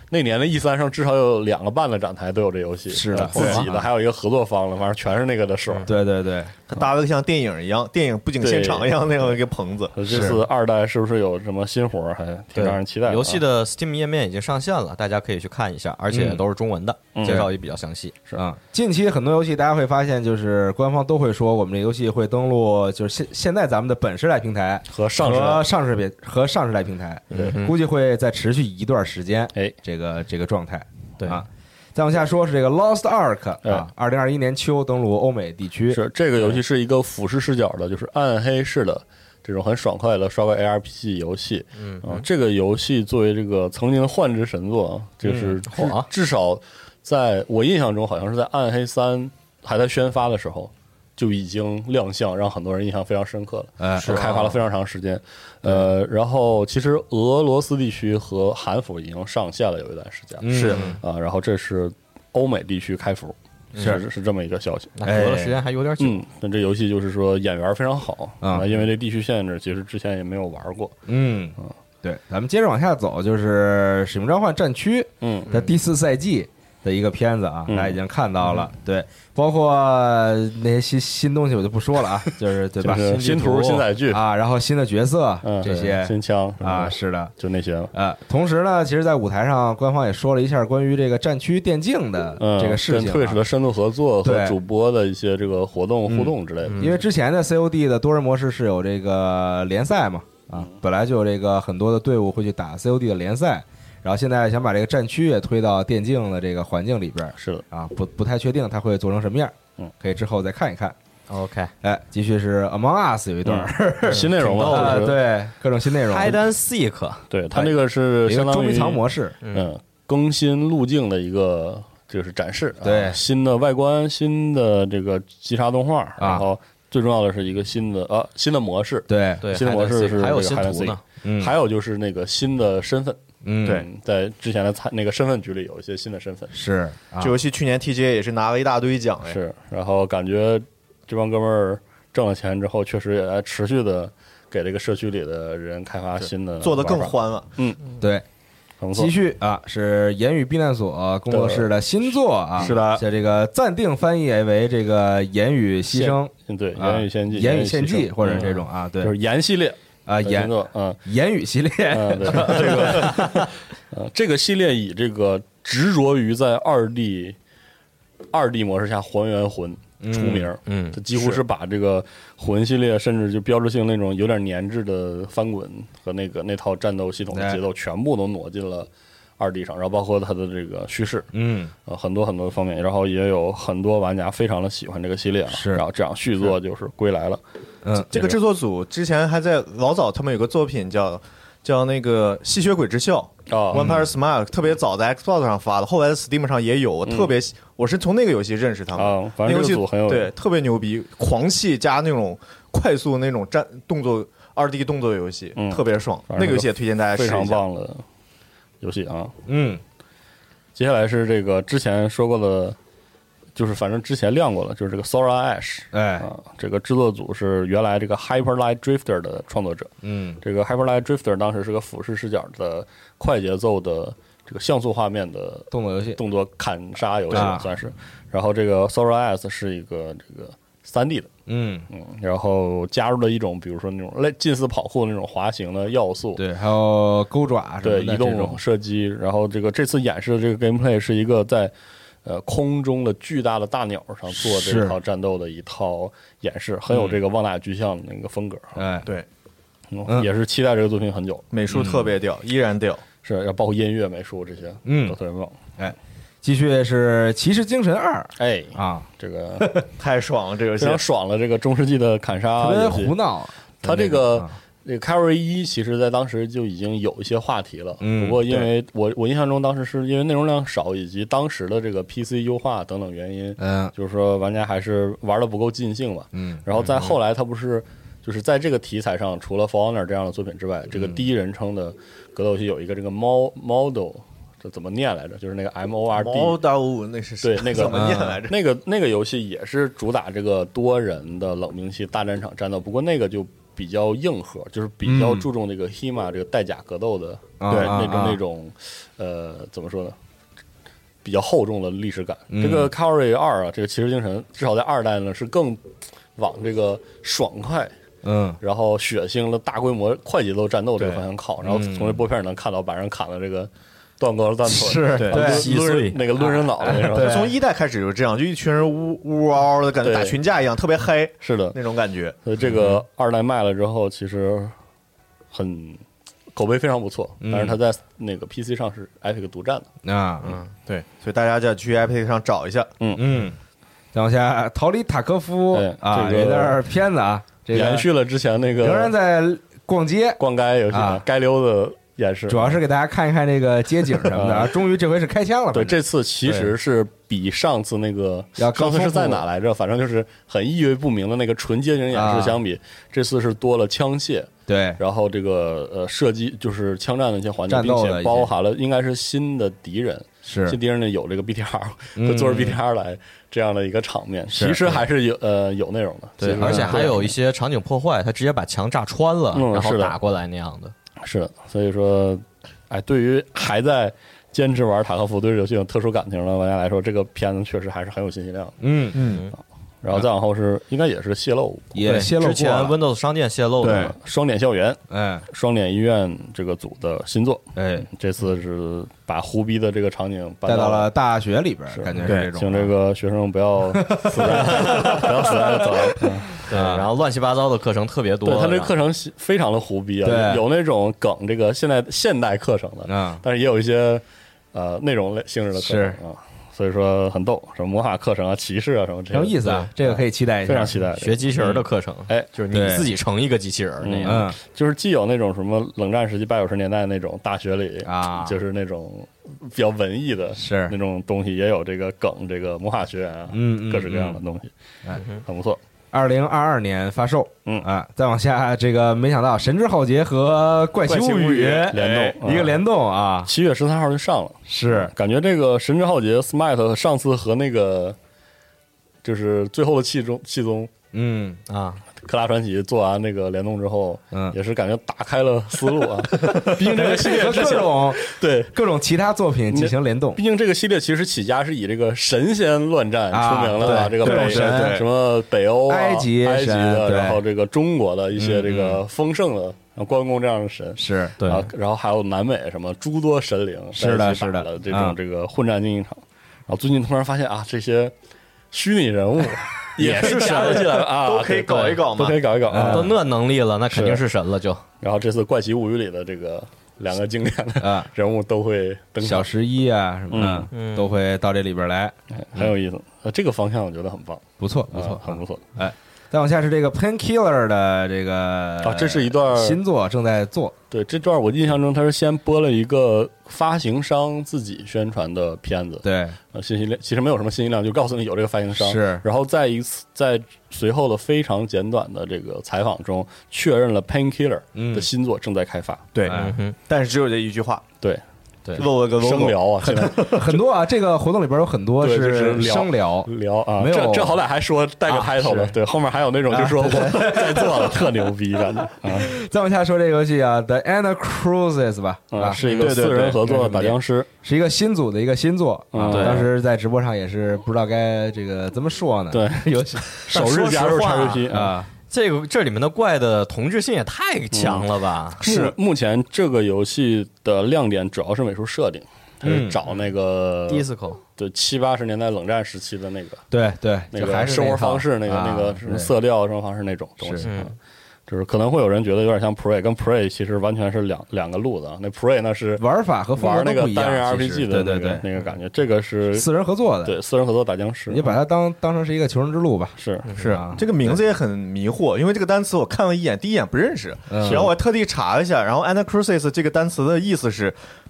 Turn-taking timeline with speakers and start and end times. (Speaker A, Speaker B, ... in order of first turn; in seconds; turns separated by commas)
Speaker A: 0.1-5.9, Speaker B: 2.9-3.9, Speaker C: 3.1-3.7, Speaker B: 5.9-6.6, Speaker D: 6.7-10.0, Speaker A: 8.4-9.3, Speaker A: 9.9-13.4, Speaker B: 10.1-10.4, Speaker C: 12.6-18.2, Speaker B: 16.1-16.4, Speaker A: 17.1-17.5, Speaker B: 18.4-36.0, Speaker A: 24.9-25.6, Speaker C: 27.3-27.8, Speaker A: 27.3-27.6, Speaker A: 35.9-64.9, Speaker C: 41.8-42.2, Speaker B: 45.2-45.6, Speaker C: 45.7-46.1, Speaker B: 53.8-54.2, Speaker C: 54.0-54.6, Speaker B: 60.4-61.0, Speaker D: 60.5-60.8, Speaker C: 60.6-61.0, Speaker C: 63.7-64.0, Speaker B: 63.8-64.0, Speaker C: 65.0-66.2, Speaker B: 65.0-65.6, Speaker A: 66.0-71.0, Speaker B: 71.1-83.2, Speaker A: 75.2-75.5, Speaker C: 75.5-75.8, Speaker A: 77.7-78.0, Speaker A: 82.8-84.2, Speaker C: 82.9-83.8, Speaker B: 84.1-87.3, Speaker A: 85.4-87.9, Speaker B: 87.9-93.4, Speaker A: 92.4-97.0, Speaker B: 94.2-94.6, Speaker B: 96.1-111.0, Speaker C: 96.7-97.0, Speaker A: 107.3-107.7, Speaker C: 111.3-111.7, Speaker B: 111.8-116.4, Speaker A: 113.5-115.2, Speaker C: 114.1-115.2, Speaker C: 115.9-117.2, Speaker A: 117.3-136.6, Speaker B: 118.3-119.4, Speaker C: 119.4-119.7, Speaker B: 122.8-123.2, Speaker B: 126.2-126.5, Speaker B: 129.1-129.4, Speaker C: 129.4-131.0, Speaker B: 131.2-131.6, Speaker B: 133.4-133.8, Speaker B: 136.5-137.3, Speaker D: 137.2-139.4, Speaker A: 139.2-147.8, Speaker D: 146.6-147.5, Speaker B: 148.0-148.2, Speaker A: 148.8-149.1, Speaker B: 148.9-159.1, Speaker A: 151.3-151.7, Speaker D: 152.6-153.0, Speaker A: 155.9-161.0, Speaker B: 160.1-160.5, Speaker B: 161.1-163.4, Speaker A: 161.9-167.4, Speaker A: 168.3-181.3, Speaker B: 170.0-170.5, Speaker C: 170.7-171.0, Speaker B: 177.3-177.6, Speaker B: 181.3-181.7, Speaker A: 181.9-187.4, Speaker B: 185.5-185.8, Speaker B: 187.8-188.2, Speaker D: 188.0-207.6, Speaker A: 193.5-193.9, Speaker B: 193.7-194.0, Speaker A: 197.1-197.3, Speaker A: 198.9-200.3, Speaker A: 205.6-208.0, Speaker A: 208.8-209.3, Speaker B: 209.5-209.8, Speaker A: 210.8-212.8, Speaker A: 213.6-231.3, Speaker B: 215.9-216.3, Speaker B: 220.0-220.4, Speaker B: 225.7-226.2, Speaker B: 227.3-227.7, Speaker B: 231.5-231.9, Speaker A: 231.9-236.4, Speaker B: 236.4-238.6, Speaker A: 237.8-241.7, Speaker A: 242.2-248.8, Speaker B: 244.4-244.9, Speaker B: 248.8-249.1, Speaker A: 249.9-251.5, Speaker D: 251.5-253.0, Speaker B: 251.7-252.0, Speaker A: 253.2-255.6, Speaker B: 254.9-255.2, Speaker B: 255.8-259.1, Speaker A: 258.4-259.7, Speaker B: 259.6-259.9, Speaker D: 260.0-261.0, Speaker A: 260.8-263.1, Speaker B: 262.6-264.5, Speaker A: 263.8-286.6, Speaker B: 268.0-268.7, Speaker B: 273.6-273.9, Speaker B: 276.3-276.6, Speaker C: 276.8-277.1, Speaker B: 280.9-281.2, Speaker D: 286.1-288.6, Speaker A: 287.4-300.2, Speaker B: 287.9-288.4, Speaker B: 295.0-295.5, Speaker B: 297.6-298.4, Speaker D: 297.7-298.0, Speaker A: 301.2-307.9, Speaker B: 302.5-302.9, Speaker B: 308.2-308.6, Speaker A: 308.6-317.5, Speaker B: 311.6-312.2, Speaker B: 314.7-315.7, Speaker D: 315.2-315.6, Speaker C: 315.3-316.3, Speaker B: 316.9-317.5, Speaker D: 317.1-322.4, Speaker A: 320.0-320.4, Speaker A: 321.4-321.8, Speaker A: 322.4-324.8, Speaker A: 325.5-326.0, Speaker A: 326.5-329.9, Speaker B: 327.4-327.8, Speaker B: 330.1-330.6, Speaker C: 330.4-330.7, Speaker D: 330.9-332.9, Speaker B: 333.1-333.6, Speaker B: 334.1-338.1, Speaker A: 335.7-336.8, Speaker A: 337.7-339.1, Speaker B: 338.8-340.4, Speaker A: 340.4-342.8, Speaker B: 340.9-341.2, Speaker B: 342.5-346.7, Speaker A: 344.3-344.8, Speaker A: 345.7-367.4, Speaker B: 348.6-349.4, Speaker B: 352.1-352.6, Speaker B: 354.7-355.0, Speaker B: 357.7-358.5, Speaker B: 360.4-360.8, Speaker B: 362.2-362.8, Speaker B: 364.5-365.0, Speaker C: 366.4-370.9, Speaker B: 366.6-367.2, Speaker A: 369.5-370.2, Speaker A: 371.2-378.8, Speaker B: 378.8-379.2, Speaker D: 379.1-379.4, Speaker C: 379.2-379.5, Speaker A: 380.0-382.0, Speaker B: 381.9-383.0, Speaker C: 382.0-384.1, Speaker D: 383.8-384.1, Speaker A: 383.9-391.1, Speaker B: 385.1-385.4, Speaker B: 387.8-388.1, Speaker B: 390.7-392.9, Speaker A: 391.9-396.6, Speaker D: 392.2-392.5, Speaker B: 393.9-397.1, Speaker C: 394.7-395.1, Speaker C: 396.6-398.9, Speaker A: 398.4-411.5, Speaker B: 400.2-400.6, Speaker B: 403.1-403.4, Speaker B: 405.8-406.2, Speaker B: 409.3-411.0, Speaker C: 409.6-409.9, Speaker C: 411.2-414.4, Speaker B: 411.6-411.8, Speaker B: 412.7-413.1, Speaker A: 414.0-424.7, Speaker B: 414.2-414.6, Speaker B: 418.1-418.6, Speaker B: 420.6-420.9, Speaker B: 423.5-424.4, Speaker C: 425.2-425.4, Speaker A: 425.3-425.8, Speaker B: 426.1-433.5, Speaker D: 431.1-432.4, Speaker A: 431.2-432.8, Speaker A: 433.4-438.2, Speaker B: 434.7-435.1, Speaker A: 439.2-440.9, Speaker B: 441.1-441.6, Speaker C: 441.7-442.0, Speaker A: 442.2-448.8, Speaker B: 446.4-450.4, Speaker A: 449.7-468.1, Speaker B: 453.3-455.1, Speaker D: 453.8-455.1, Speaker B: 455.9-457.4, Speaker B: 458.4-459.0, Speaker B: 461.0-461.4, Speaker C: 461.4-461.7, Speaker B: 463.9-465.2, Speaker A: 468.7-473.2, Speaker C: 470.0-471.1, Speaker D: 470.1-472.5, Speaker C: 471.7-472.0, Speaker B: 472.7-473.1, Speaker C: 472.9-474.8, Speaker A: 473.9-474.2, Speaker A: 475.0-479.5, Speaker B: 477.8-478.1, Speaker B: 479.2-482.7, Speaker A: 480.3-480.7, Speaker C: 480.7-481.1, Speaker A: 482.3-485.6, Speaker B: 484.6-490.7, Speaker A: 488.8-489.8, Speaker A: 490.9-506.1, Speaker B: 496.0-496.4, Speaker B: 498.8-499.2, Speaker B: 504.8-505.1, Speaker D: 506.1-507.8, Speaker B: 506.3-506.6, Speaker C: 506.3-506.8, Speaker D: 508.8-510.6, Speaker A: 509.2-510.4, Speaker B: 510.3-514.4, Speaker A: 512.0-519.3, Speaker B: 515.1-515.7, Speaker B: 516.5-518.3, Speaker B: 519.0-522.6, Speaker A: 522.3-524.3, Speaker C: 522.6-522.9, Speaker D: 522.7-523.5, Speaker B: 523.5-530.3, Speaker A: 525.9-526.5, Speaker C: 526.1-526.5, Speaker A: 529.3-531.8, Speaker C: 530.3-531.5, Speaker B: 531.5-531.9, Speaker C: 532.1-535.4, Speaker A: 534.5-540.9, Speaker D: 535.4-535.7, Speaker B: 539.4-539.8, Speaker C: 540.7-541.2, Speaker A: 541.4-543.5, Speaker B: 543.5-546.1, Speaker A: 544.1-547.7, Speaker B: 547.2-547.5, Speaker C: 547.4-547.7, Speaker A: 548.3-552.8, Speaker B: 552.8-555.2, Speaker A: 553.4-556.5, Speaker B: 556.3-557.2, Speaker A: 557.0-558.4, Speaker B: 558.1-561.2, Speaker A: 560.0-560.3, Speaker C: 560.3-560.6, Speaker D: 560.4-567.8, Speaker B: 564.3-564.7, Speaker A: 564.4-564.7